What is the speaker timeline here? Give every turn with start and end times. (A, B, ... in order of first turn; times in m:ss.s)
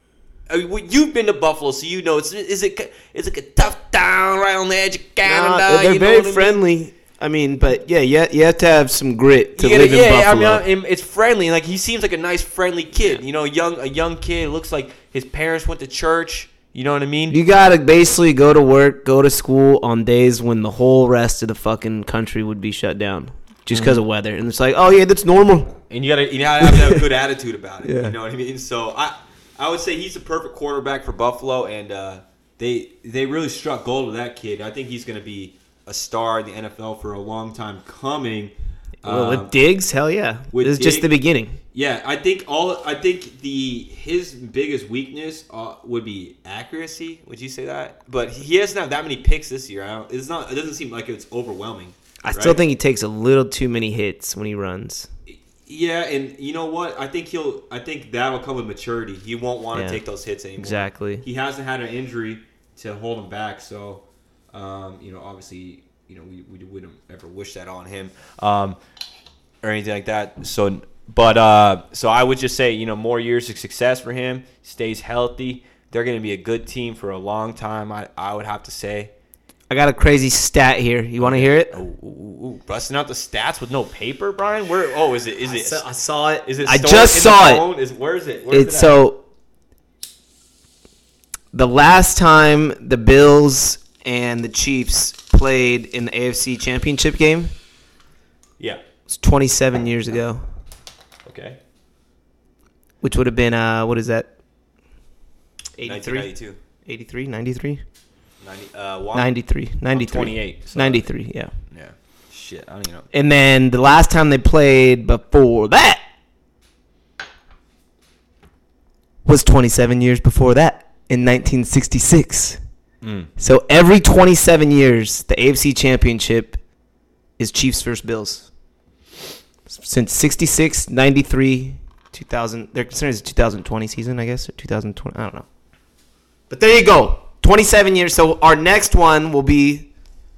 0:00.5-0:06.6 A
0:05.2-0:10.6 B
0:09.6-0:17.4 A
0:17.3-0:25.7 B
0:23.7-0:24.0 A
0:25.9-0:39.5 A
0:26.6-0:27.0 B
0:27.8-0:28.2 B
0:39.0-0:41.6 B
0:40.5-0:41.1 A
0:41.7-0:52.6 A
0:52.2-0:55.1 B
0:55.3-1:08.8 A
0:59.7-1:00.0 B
1:00.6-1:01.2 B
1:09.6-1:19.1 A
1:19.7-1:21.8 B
1:21.2-1:25.8 A
1:25.5-1:27.6 B
1:26.4-1:29.0 A
1:28.5-1:29.2 B
1:31.5-1:37.5 B
1:39.1-1:40.4 B
1:41.2-1:41.6 A
1:43.0-1:44.3 B
1:45.8-1:46.3 B
1:45.8-1:46.6 A
1:46.8-1:47.8 B
1:48.4-1:49.3 A
1:49.1-1:51.5 B
1:49.9-1:51.1 A
1:51.7-1:53.1 A
1:53.1-1:56.0 B
1:59.2-2:02.6 B
2:03.0-2:03.3 A
2:03.4-2:06.6 B
2:07.4-2:08.5 B
2:09.6-2:15.4 B
2:16.5-2:19.9 B